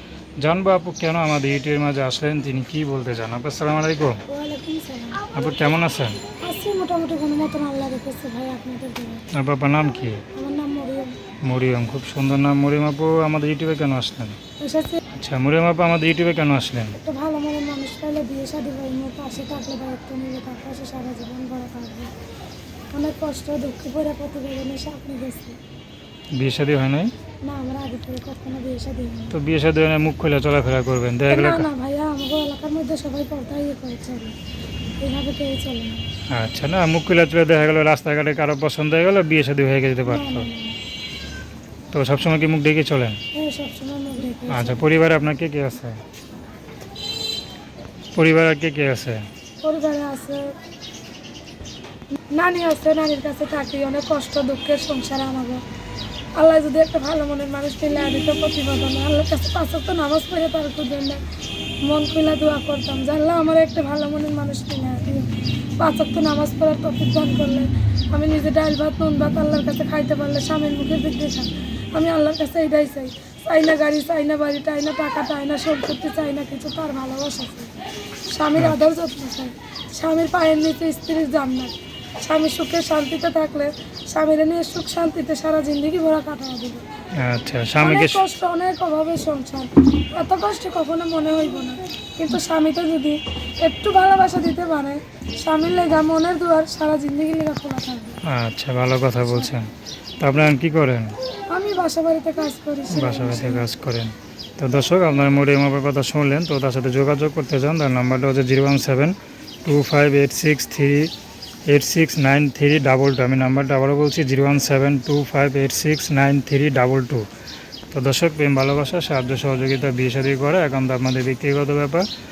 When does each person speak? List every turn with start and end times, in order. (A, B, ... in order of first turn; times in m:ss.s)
0:00.4-0:04.2 A
0:04.3-0:05.4 B
0:05.3-0:06.2 A
0:06.4-0:09.2 B
0:09.3-0:10.2 A
0:10.3-0:11.1 B
0:11.4-0:14.4 A
0:14.6-0:15.0 B
0:15.1-0:17.0 A
0:17.0-0:22.1 B
0:22.9-0:25.6 B
0:26.4-0:27.1 A
0:27.4-0:29.4 B
0:29.3-0:31.7 A
0:31.3-0:34.3 B
0:35.0-0:36.0 B
0:36.3-0:40.5 A
0:40.0-0:40.8 B
0:41.9-0:43.2 A
0:43.3-0:44.8 B
0:44.5-0:46.0 A
0:48.1-0:49.2 A
0:49.6-0:50.5 B
0:52.3-0:55.6 B
0:56.4-1:01.2 B
1:01.8-1:05.3 B
1:05.8-1:17.7 B
1:18.3-1:26.8 B
1:27.2-1:28.2 A
1:27.8-1:38.2 B
1:38.2-1:41.1 A
1:41.5-1:43.6 B
1:42.9-1:51.1 A
1:51.7-1:57.2 A
1:57.9-2:02.0 A